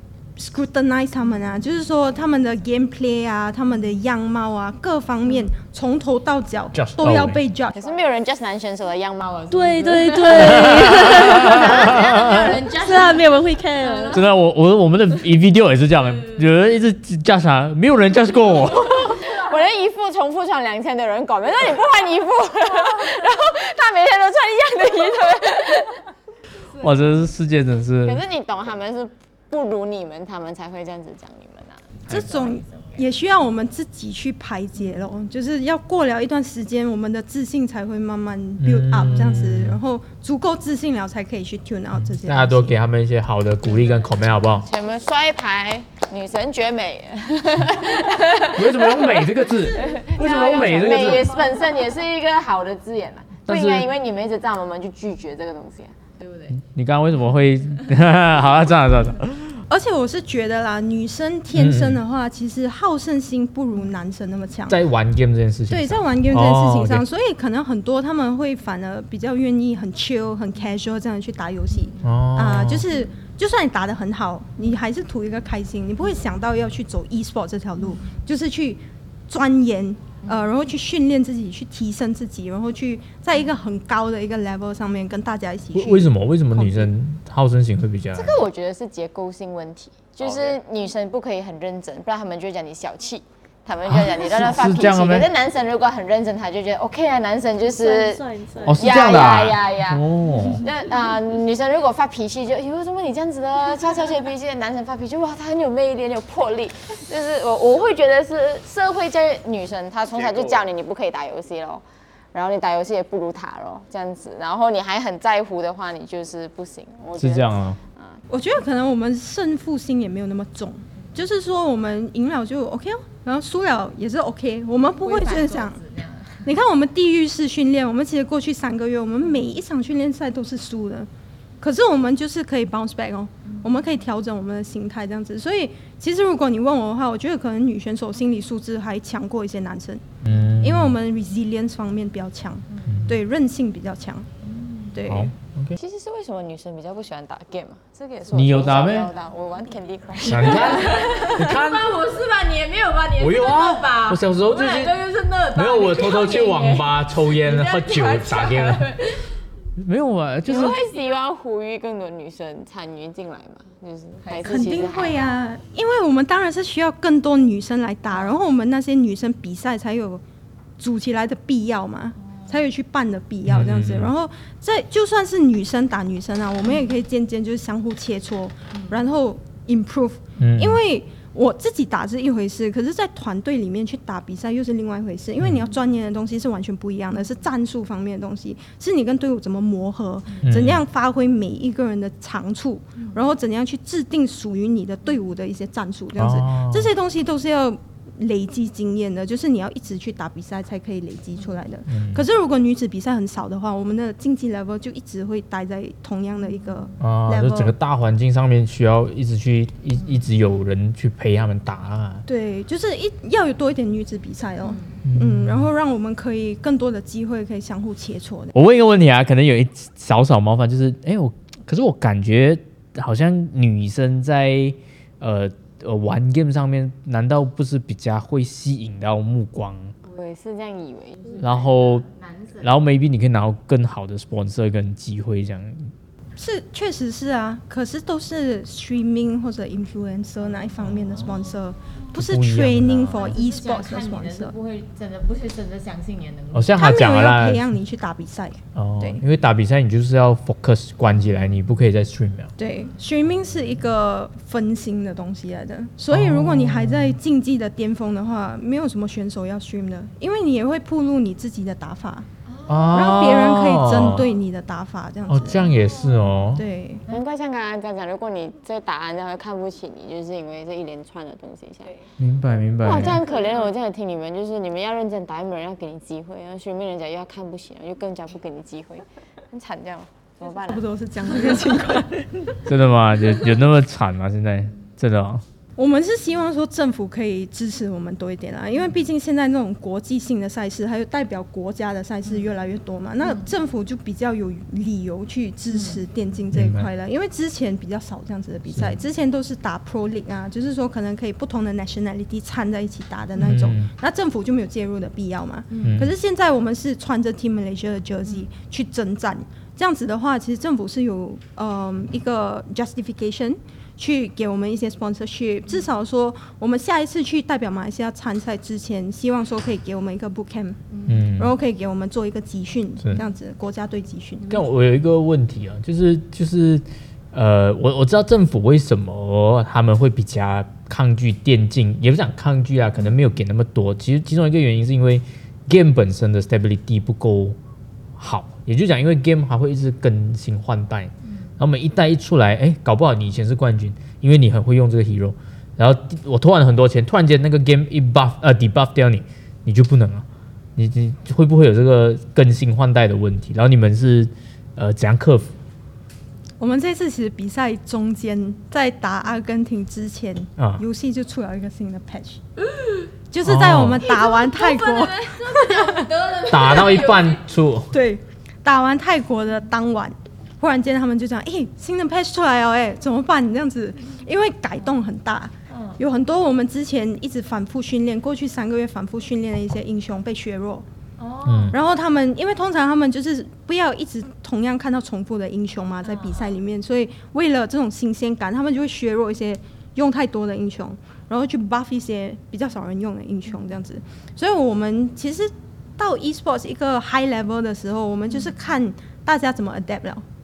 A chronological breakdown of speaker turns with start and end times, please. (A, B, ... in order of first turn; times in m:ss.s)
0:00.4-0:07.9 A
0:06.8-0:07.4 B
0:07.8-0:09.4 C
0:09.3-0:14.3 D
0:09.5-0:14.2 E
0:10.3-0:12.5 B
0:14.1-0:19.2 B
0:18.7-0:19.6 D
0:19.2-0:26.0 C
0:22.9-0:23.2 D
0:26.8-0:27.2 D
0:26.8-0:28.2 B
0:28.0-0:31.8 C
0:32.1-0:42.8 A
0:32.1-0:33.0 D
0:38.6-0:39.8 B
0:41.9-0:44.7 B
0:44.6-0:48.9 C
0:48.0-0:48.5 D
0:48.5-0:51.3 B
0:49.5-0:51.8 D
0:49.8-0:56.0 C
0:53.5-0:53.9 B
0:56.2-0:56.6 D
0:56.6-0:59.6 B
0:59.7-1:04.8 A
1:01.5-1:02.0 B
1:04.7-1:07.0 B
1:05.7-1:26.9 A
1:12.0-1:12.9 B
1:25.7-1:28.4 B
1:28.1-1:38.2 C
1:33.9-1:35.3 B
1:37.7-1:38.9 E
1:38.6-1:40.6 B
1:38.8-1:40.1 C
1:40.6-1:58.2 C
1:57.2-1:57.8 B
1:58.3-2:05.8 A
2:05.0-2:06.5 D
2:06.4-2:11.1 A
2:11.6-2:20.1 A
2:13.4-2:13.8 D
2:20.2-2:20.9 B
2:20.6-2:24.3 A
2:22.9-2:23.2 B
2:24.4-2:25.0 D
2:24.9-2:25.3 A
2:25.1-2:25.8 B
2:25.8-2:31.1 C
2:28.3-2:29.1 B
2:30.2-2:32.0 B
2:30.3-2:39.4 D
2:33.2-2:38.9 B
2:39.8-2:40.8 B
2:40.4-2:45.2 C
2:40.5-2:41.0 D
2:44.2-2:44.9 D
2:44.4-2:50.2 A
2:50.8-3:27.7 A
2:52.3-2:52.6 D
2:53.5-2:54.1 B
2:58.7-2:59.0 D
3:00.4-3:00.8 B
3:10.4-3:10.8 B
3:13.0-3:13.2 D
3:16.2-3:16.9 B
3:21.9-3:22.2 B
3:27.0-3:32.2 B
3:32.3-3:38.5 A
3:35.0-3:35.7 B
3:38.5-3:49.9 B
3:50.1-3:51.4 C
3:51.2-3:52.8 D
3:51.4-3:52.1 B
3:52.6-3:55.9 B
3:56.4-4:04.5 A
4:02.1-4:03.2 B
4:03.1-4:06.8 D
4:06.5-4:07.6 B
4:06.7-4:09.2 A
4:08.8-4:12.5 B
4:12.6-4:22.3 A
4:16.1-4:17.2 B
4:22.5-4:22.9 D
4:22.7-4:24.3 B
4:22.9-4:25.7 A
4:25.3-4:26.6 B
4:25.7-4:26.2 D
4:26.5-4:27.0 A
4:27.1-4:32.0 C
4:32.2-4:33.2 B
4:32.8-4:40.8 C
4:40.7-4:42.3 A
4:42.6-4:45.4 B
4:45.8-5:24.5 A
4:55.7-4:56.0 D
4:56.5-4:56.9 B
5:03.4-5:03.9 B
5:05.7-5:06.0 D
5:05.8-5:06.1 B
5:20.9-5:21.3 D
5:21.1-5:21.5 B
5:24.5-5:37.6 B
5:38.2-5:50.2 B
5:50.8-5:55.5 B
5:56.6-6:02.4 A
6:00.6-6:00.8 B
6:02.7-6:03.1 D
6:03.3-6:06.1 A
6:03.4-6:04.1 B
6:04.0-6:07.4 D
6:06.4-6:07.9 B
6:07.9-6:20.8 A
6:15.7-6:16.0 D
6:21.2-6:21.8 D
6:21.5-6:21.8 B
6:21.7-6:40.2 A
6:26.0-6:26.5 D